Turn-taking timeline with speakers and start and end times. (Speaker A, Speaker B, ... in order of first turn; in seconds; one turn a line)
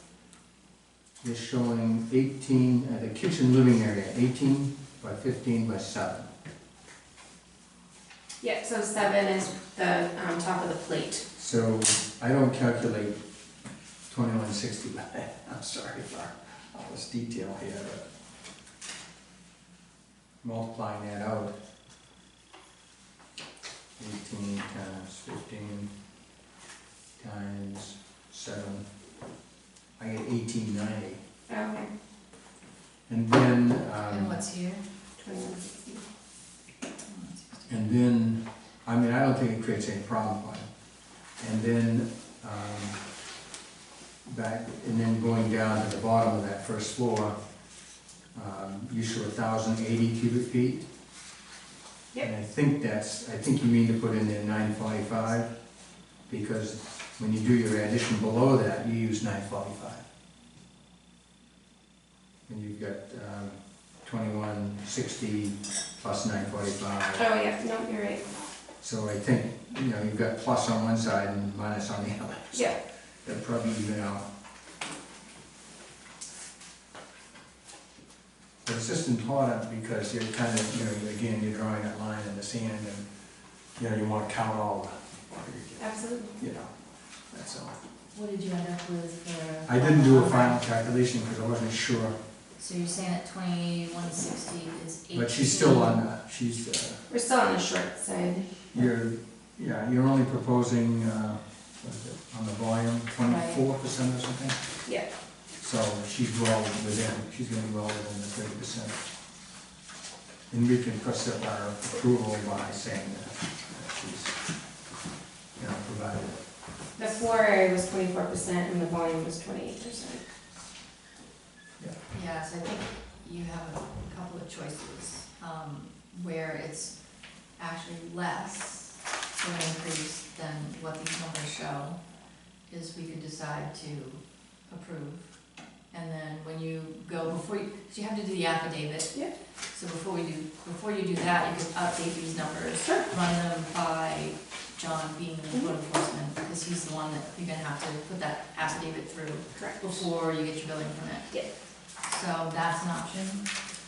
Speaker A: 1.2-6.3
Speaker B: 8.4-11.2
Speaker A: 11.3-13.2
Speaker A: 14.1-18.1
Speaker A: 20.4-21.5
Speaker A: 24.0-25.9
Speaker A: 27.2-28.8
Speaker A: 30.0-31.2
Speaker B: 31.5-31.9
Speaker A: 33.1-34.4
Speaker C: 34.0-34.9
Speaker B: 35.2-36.0
Speaker C: 37.0-37.9
Speaker A: 37.7-40.7
Speaker A: 41.4-43.0
Speaker A: 44.2-47.3
Speaker A: 48.3-50.9
Speaker A: 52.2-55.5
Speaker A: 56.3-60.0
Speaker A: 62.5-67.2
Speaker B: 67.1-68.2
Speaker A: 68.8-72.7
Speaker A: 73.2-74.2
Speaker A: 78.6-83.0
Speaker A: 83.8-86.7
Speaker B: 85.8-86.3
Speaker A: 87.3-87.8
Speaker C: 88.1-90.6
Speaker A: 89.7-92.1
Speaker C: 92.6-96.0
Speaker A: 95.1-97.0
Speaker B: 97.1-98.7
Speaker A: 98.7-104.6
Speaker C: 103.2-103.6
Speaker A: 105.6-109.0
Speaker A: 110.5-114.3
Speaker A: 115.6-116.4
Speaker B: 117.0-120.2
Speaker C: 122.1-127.0
Speaker C: 127.6-132.0
Speaker C: 132.7-135.3
Speaker C: 135.9-139.2
Speaker C: 139.7-151.4
Speaker B: 142.8-143.1
Speaker B: 149.5-150.0
Speaker C: 152.0-153.5